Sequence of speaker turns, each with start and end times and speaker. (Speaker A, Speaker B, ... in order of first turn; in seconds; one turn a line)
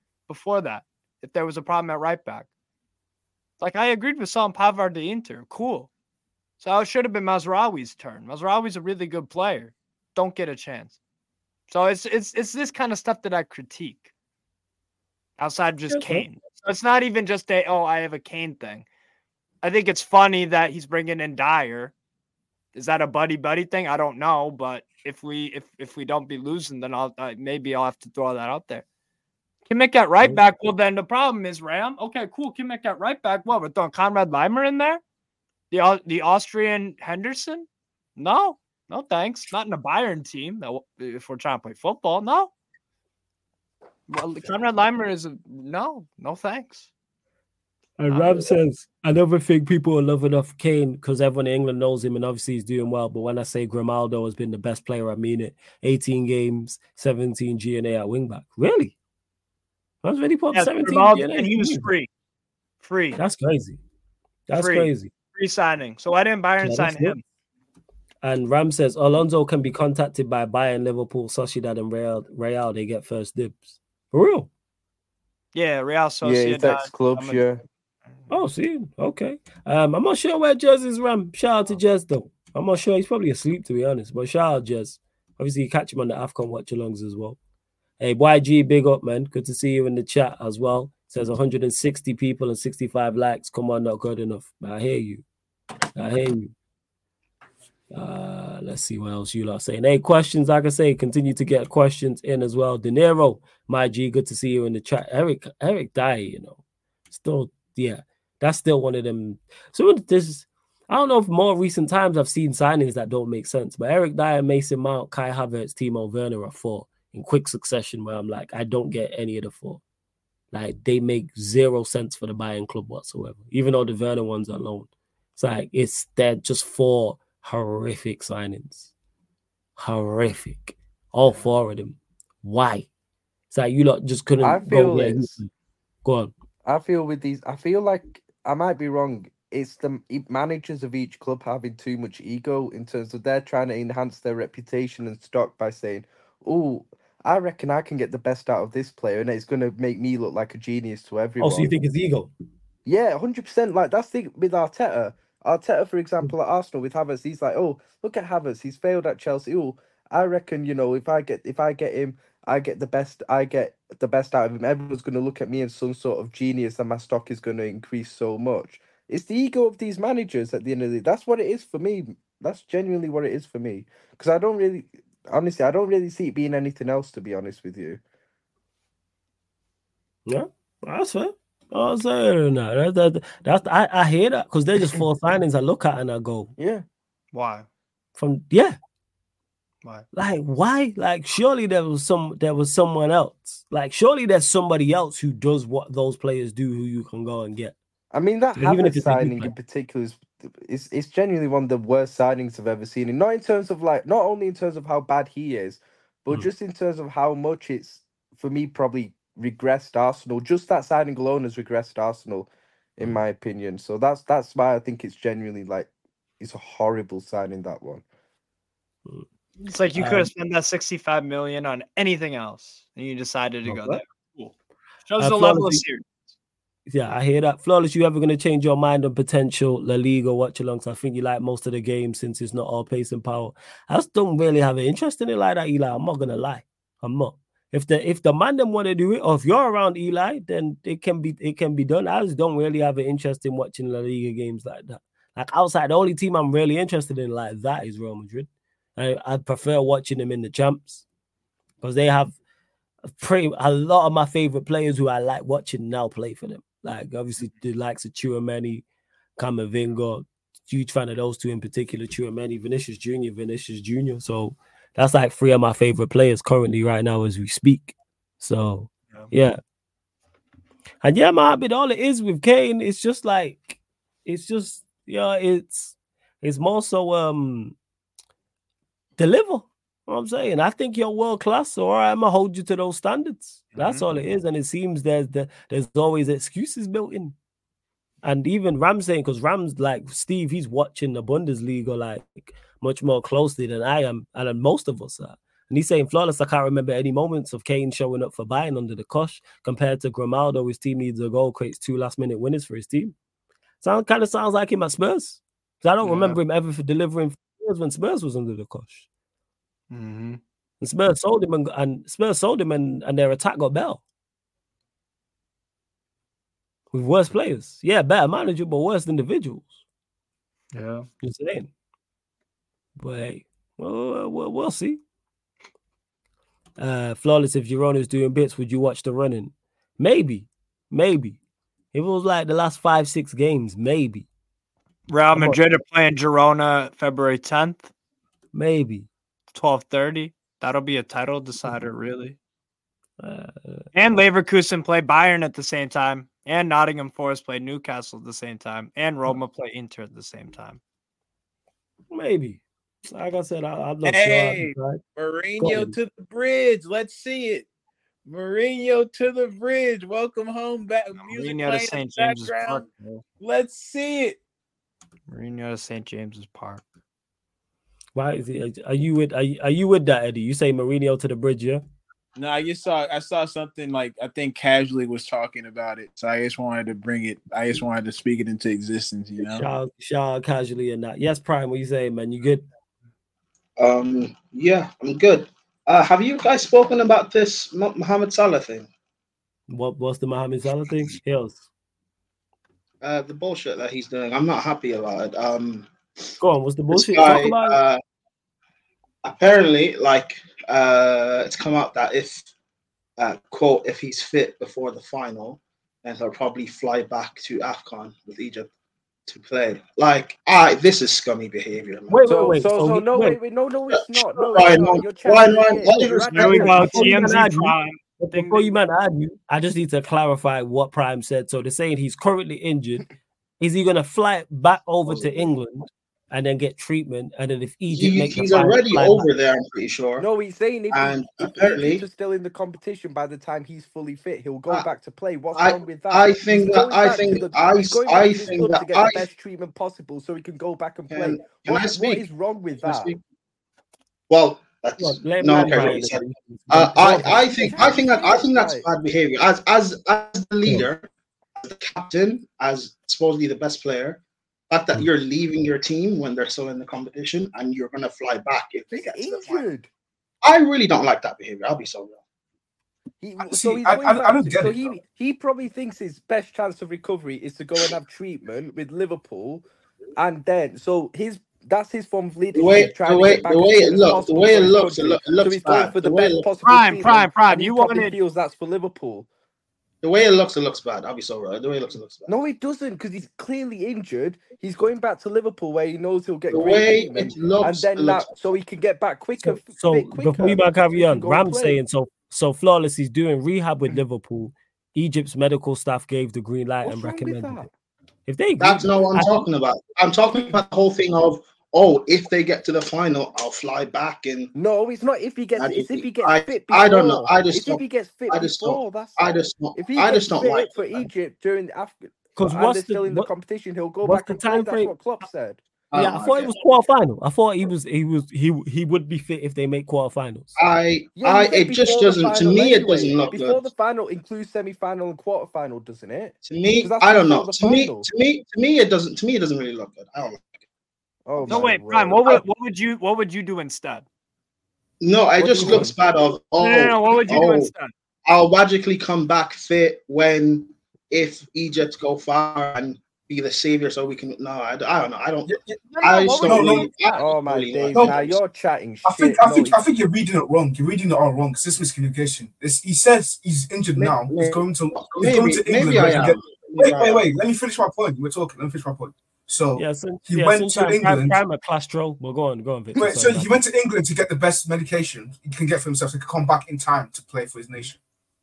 Speaker A: 0.3-2.5
Speaker A: 3.6-5.9
Speaker A: 6.6-11.0
Speaker A: 11.7-14.1
Speaker A: 15.4-18.9
Speaker B: 15.9-16.3
Speaker A: 19.6-21.9
Speaker A: 22.7-28.8
Speaker A: 29.7-35.0
Speaker A: 35.7-42.5
Speaker A: 44.1-46.9
Speaker B: 48.0-59.0
Speaker A: 48.1-48.5
Speaker B: 60.0-61.9
Speaker A: 60.5-62.1
Speaker A: 62.8-63.2
Speaker B: 63.2-63.8
Speaker B: 64.5-65.1
Speaker A: 64.6-67.2
Speaker B: 66.6-67.2
Speaker B: 68.2-74.5
Speaker A: 75.5-77.4
Speaker C: 76.2-77.6
Speaker B: 78.3-87.4
Speaker B: 88.0-95.2
Speaker B: 96.0-96.5
Speaker B: 97.9-119.8
Speaker B: 120.5-128.9
Speaker B: 129.8-132.9
Speaker B: 133.5-135.5
Speaker C: 134.4-135.3
Speaker B: 136.1-136.3
Speaker C: 136.7-151.7
Speaker B: 151.4-152.3
Speaker C: 152.9-178.0
Speaker B: 180.3-186.5
Speaker C: 186.6-186.8
Speaker A: 187.3-187.7
Speaker B: 188.2-188.8
Speaker B: 190.1-197.8
Speaker C: 198.1-218.0
Speaker B: 198.6-199.5
Speaker A: 219.6-224.5
Speaker B: 219.9-220.3
Speaker B: 223.7-224.0
Speaker A: 225.1-226.1
Speaker B: 225.2-225.8
Speaker B: 226.9-251.1
Speaker B: 251.8-252.3
Speaker B: 253.1-258.9
Speaker B: 259.4-269.6
Speaker B: 271.0-277.8
Speaker B: 279.2-287.4
Speaker A: 283.8-284.1
Speaker B: 288.2-303.1
Speaker B: 303.8-309.1
Speaker A: 306.0-306.4
Speaker A: 309.9-310.4
Speaker B: 310.8-314.0
Speaker B: 316.9-319.8
Speaker A: 320.7-321.1
Speaker B: 321.2-321.7
Speaker B: 323.0-325.0
Speaker B: 326.8-331.4
Speaker B: 331.9-334.3
Speaker A: 335.1-337.9
Speaker B: 335.3-335.6
Speaker B: 338.5-339.1
Speaker A: 339.5-342.4
Speaker B: 343.2-343.9
Speaker A: 343.9-350.8
Speaker B: 352.1-355.0
Speaker D: 354.1-357.7
Speaker B: 355.6-356.0
Speaker D: 358.3-362.9
Speaker A: 361.2-363.2
Speaker D: 363.4-364.4
Speaker A: 365.3-366.8
Speaker B: 368.1-371.8
Speaker D: 372.4-379.7
Speaker B: 379.4-382.6
Speaker E: 383.8-388.9
Speaker B: 389.7-391.6
Speaker E: 393.0-395.9
Speaker B: 396.4-397.8
Speaker E: 396.9-398.0
Speaker E: 399.2-402.5
Speaker E: 403.2-408.7
Speaker E: 409.3-412.6
Speaker B: 412.1-413.4
Speaker C: 412.2-417.4
Speaker E: 413.9-417.1
Speaker A: 416.3-418.7
Speaker B: 416.8-423.1
Speaker B: 423.6-429.3
Speaker E: 427.9-430.3
Speaker C: 430.2-443.1
Speaker E: 430.9-432.1
Speaker E: 435.5-439.3
Speaker E: 441.1-442.3
Speaker E: 442.8-443.2
Speaker E: 444.3-451.1
Speaker B: 445.0-447.4
Speaker C: 445.5-445.9
Speaker C: 446.8-448.8
Speaker E: 451.6-459.7
Speaker C: 458.9-459.9
Speaker E: 460.4-462.2
Speaker C: 463.2-469.6
Speaker F: 463.4-464.8
Speaker C: 470.2-479.3
Speaker E: 472.5-476.5
Speaker A: 476.6-478.2
Speaker E: 480.0-482.3
Speaker C: 482.3-491.8
Speaker E: 486.5-488.4
Speaker B: 489.4-497.7
Speaker C: 496.8-497.7
Speaker B: 498.3-499.4
Speaker E: 498.6-504.5
Speaker C: 504.6-515.6
Speaker E: 505.6-511.1
Speaker B: 512.4-513.3
Speaker B: 514.0-515.0
Speaker E: 515.9-516.6
Speaker B: 516.0-520.6
Speaker E: 520.6-523.7
Speaker C: 521.1-528.1
Speaker E: 526.5-530.5
Speaker C: 531.3-532.3
Speaker E: 531.4-531.7
Speaker A: 531.5-534.0
Speaker E: 535.0-537.7
Speaker C: 535.4-536.0
Speaker A: 536.6-537.9
Speaker E: 538.3-548.4
Speaker F: 545.5-545.8
Speaker A: 545.9-547.2
Speaker F: 546.5-546.9
Speaker C: 547.1-549.8
Speaker F: 547.9-548.2
Speaker F: 549.0-561.4
Speaker E: 554.0-557.2
Speaker B: 559.8-563.5
Speaker F: 562.9-568.0